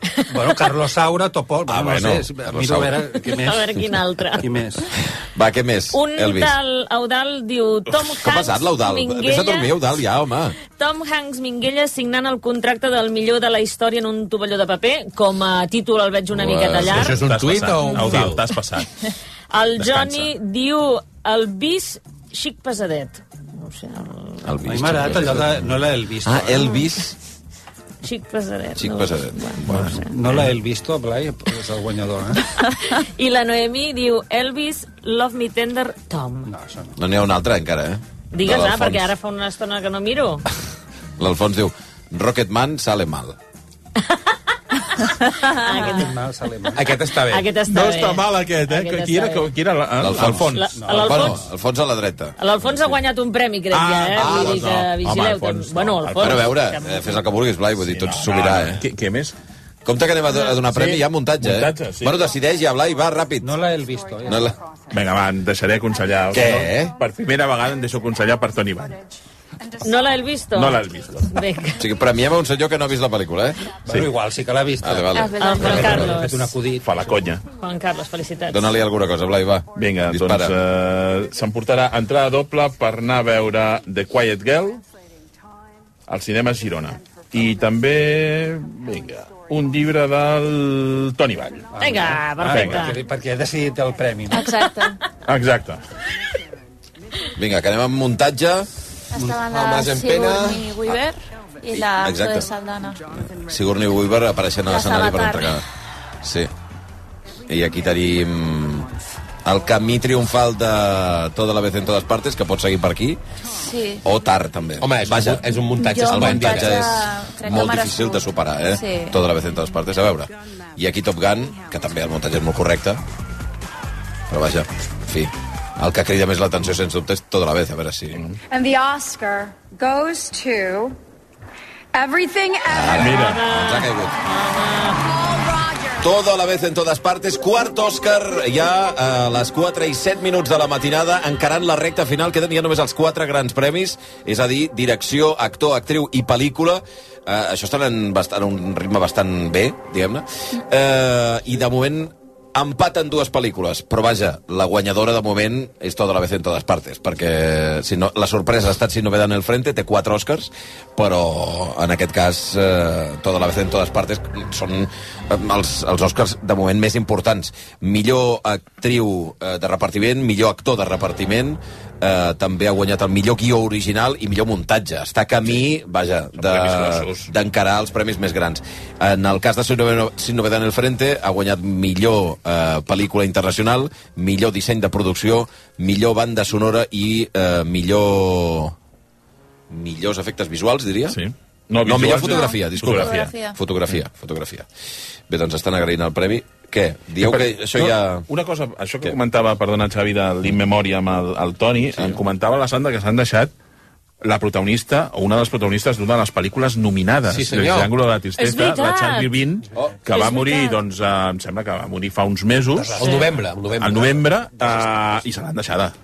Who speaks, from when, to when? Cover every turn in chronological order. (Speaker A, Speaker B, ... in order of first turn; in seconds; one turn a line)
Speaker A: 0.3-4.9
Speaker B: 1.7-3.0
Speaker C: 3.2-4.4
Speaker B: 5.3-6.5
Speaker C: 5.9-9.7
Speaker D: 7.9-8.2
Speaker B: 8.2-10.6
Speaker C: 10.8-17.2
Speaker B: 16.3-17.1
Speaker E: 16.9-18.4
Speaker D: 17.0-18.9
Speaker C: 19.5-24.4
Speaker D: 19.8-20.3
Speaker B: 24.4-25.6
Speaker A: 24.6-26.8
Speaker B: 26.2-27.1
Speaker C: 28.0-30.0
Speaker B: 28.8-30.0
Speaker D: 29.7-30.5
Speaker A: 30.0-32.5
Speaker C: 32.9-36.5
Speaker A: 36.4-37.0
Speaker B: 37.0-39.0
Speaker C: 38.3-40.4
Speaker B: 41.2-43.4
Speaker C: 45.4-46.2
Speaker A: 45.7-47.0
Speaker E: 46.7-47.5
Speaker C: 47.2-49.5
Speaker D: 47.6-50.8
Speaker B: 50.0-52.4
Speaker A: 50.2-51.5
Speaker C: 50.3-51.4
Speaker C: 52.4-57.2
Speaker D: 53.7-56.5
Speaker B: 54.1-54.8
Speaker B: 56.2-58.8
Speaker D: 57.8-59.3
Speaker B: 59.8-63.5
Speaker D: 60.6-62.3
Speaker F: 62.3-63.0
Speaker A: 63.4-64.6
Speaker F: 63.8-65.3
Speaker B: 64.2-64.5
Speaker D: 64.9-69.0
Speaker F: 65.8-70.4
Speaker B: 66.3-67.0
Speaker C: 69.8-71.8
Speaker D: 70.5-71.4
Speaker B: 71.8-73.6
Speaker A: 73.8-77.2
Speaker B: 74.8-76.0
Speaker G: 75.1-76.1
Speaker C: 75.4-76.6
Speaker D: 76.8-77.4
Speaker C: 77.5-78.8
Speaker B: 78.5-80.5
Speaker D: 79.7-84.8
Speaker D: 86.1-91.8
Speaker F: 87.0-88.4
Speaker F: 89.0-90.0
Speaker A: 91.7-94.5
Speaker C: 91.8-93.0
Speaker D: 92.4-92.9
Speaker G: 94.3-95.0
Speaker D: 95.2-95.8
Speaker B: 97.3-98.7
Speaker G: 99.1-103.1
Speaker A: 99.1-99.4
Speaker E: 99.4-100.6
Speaker B: 101.7-102.5
Speaker B: 103.2-105.6
Speaker G: 104.7-105.6
Speaker B: 106.2-106.5
Speaker B: 107.5-108.9
Speaker B: 109.4-113.2
Speaker G: 113.6-114.0
Speaker B: 114.0-123.0
Speaker E: 114.8-116.9
Speaker G: 115.8-119.2
Speaker F: 120.4-120.8
Speaker B: 124.3-128.2
Speaker F: 128.5-131.0
Speaker F: 131.9-133.3
Speaker B: 132.7-134.2
Speaker D: 132.9-133.4
Speaker C: 133.1-135.2
Speaker F: 134.8-136.1
Speaker B: 136.0-188.8
Speaker D: 176.4-177.3
Speaker B: 189.7-191.2
Speaker D: 191.1-193.3
Speaker B: 191.8-194.7
Speaker G: 192.2-193.6
Speaker B: 195.3-198.3
Speaker D: 197.2-203.5
Speaker D: 204.2-213.0
Speaker E: 207.3-207.9
Speaker C: 208.4-209.3
Speaker C: 210.1-210.8
Speaker A: 212.7-213.3
Speaker E: 212.9-214.7
Speaker C: 213.0-213.3
Speaker D: 213.8-215.9